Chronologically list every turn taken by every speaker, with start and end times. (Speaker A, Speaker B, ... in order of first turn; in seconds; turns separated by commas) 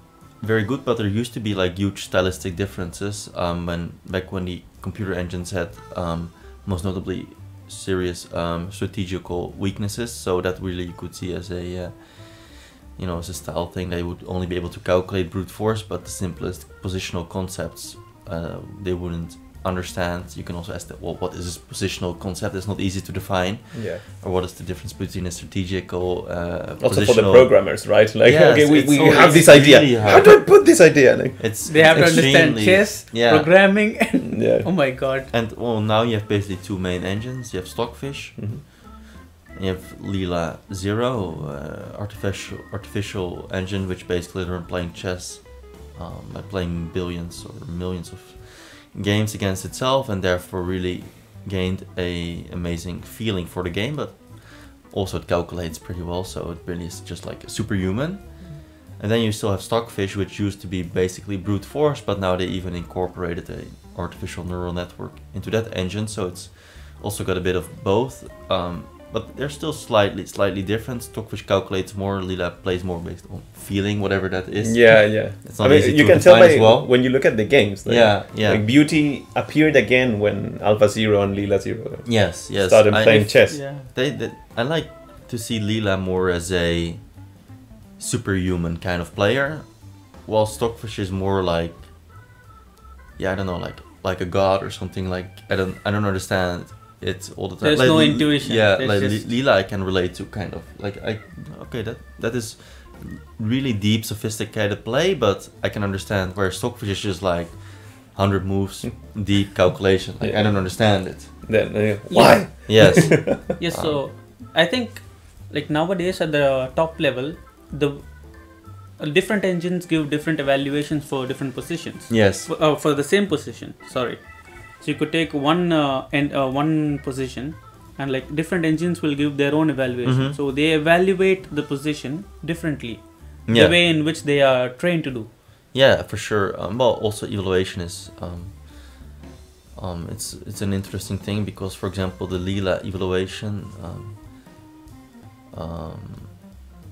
Speaker A: 0.4-33.6, Speaker B: 23.7-24.0, Speaker B: 26.8-32.3, Speaker C: 28.9-29.7, Speaker C: 31.6-35.3, Speaker B: 34.3-34.7, Speaker A: 35.3-78.7, Speaker B: 38.4-38.6, Speaker B: 74.6-83.6, Speaker A: 82.0-87.4, Speaker C: 83.5-83.9, Speaker A: 88.0-92.2, Speaker A: 93.2-111.4, Speaker C: 97.6-99.3, Speaker B: 110.2-113.4, Speaker C: 112.1-135.3, Speaker A: 112.7-114.1, Speaker A: 122.1-122.5, Speaker A: 130.0-130.4, Speaker A: 133.4-133.8, Speaker A: 135.7-139.2, Speaker A: 139.7-144.3, Speaker A: 145.5-146.6